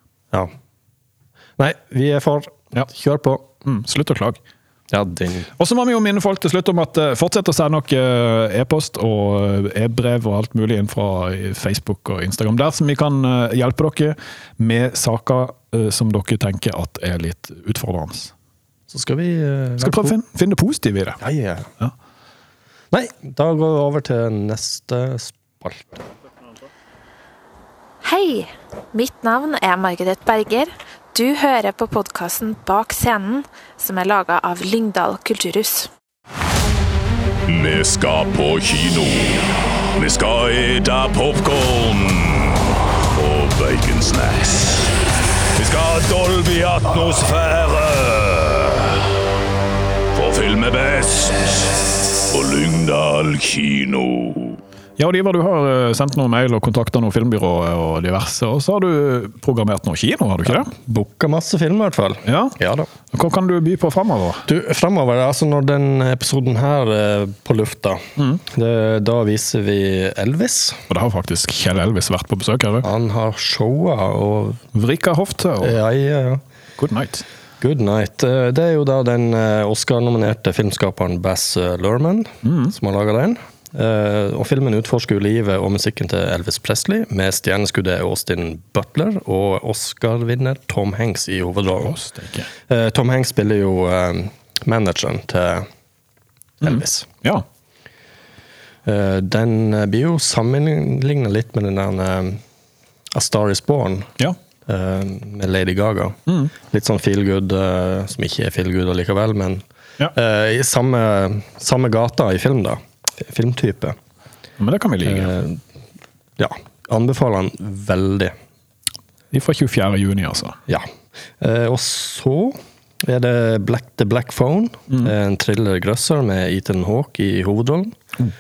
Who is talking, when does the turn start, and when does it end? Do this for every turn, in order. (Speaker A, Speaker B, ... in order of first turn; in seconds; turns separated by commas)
Speaker A: 1.6-3.5, Speaker B: 3.6-4.4, Speaker A: 4.9-5.5, Speaker B: 5.6-18.3, Speaker A: 18.9-20.2, Speaker B: 19.8-21.2, Speaker A: 21.2-21.7, Speaker A: 22.9-26.1, Speaker C: 28.0-35.9, Speaker D: 37.5-44.9, Speaker D: 45.6-49.0, Speaker D: 50.1-51.7, Speaker D: 52.3-54.6, Speaker B: 55.0-60.7, Speaker A: 60.5-62.9, Speaker B: 62.2-62.6, Speaker B: 63.1-64.5, Speaker A: 64.5-70.8, Speaker B: 68.2-68.4, Speaker B: 70.9-72.9, Speaker A: 72.8-74.6, Speaker B: 74.7-75.8, Speaker A: 75.6-76.4, Speaker B: 76.8-77.2, Speaker A: 77.6-92.0, Speaker B: 82.4-82.7, Speaker B: 91.8-92.5, Speaker A: 92.7-95.7, Speaker A: 96.6-97.1, Speaker B: 96.6-97.5, Speaker A: 98.8-102.4, Speaker A: 103.1-104.1, Speaker A: 104.7-114.0, Speaker B: 114.6-115.3, Speaker A: 115.0-115.6, Speaker A: 116.4-118.3, Speaker B: 119.3-120.6, Speaker A: 120.7-128.0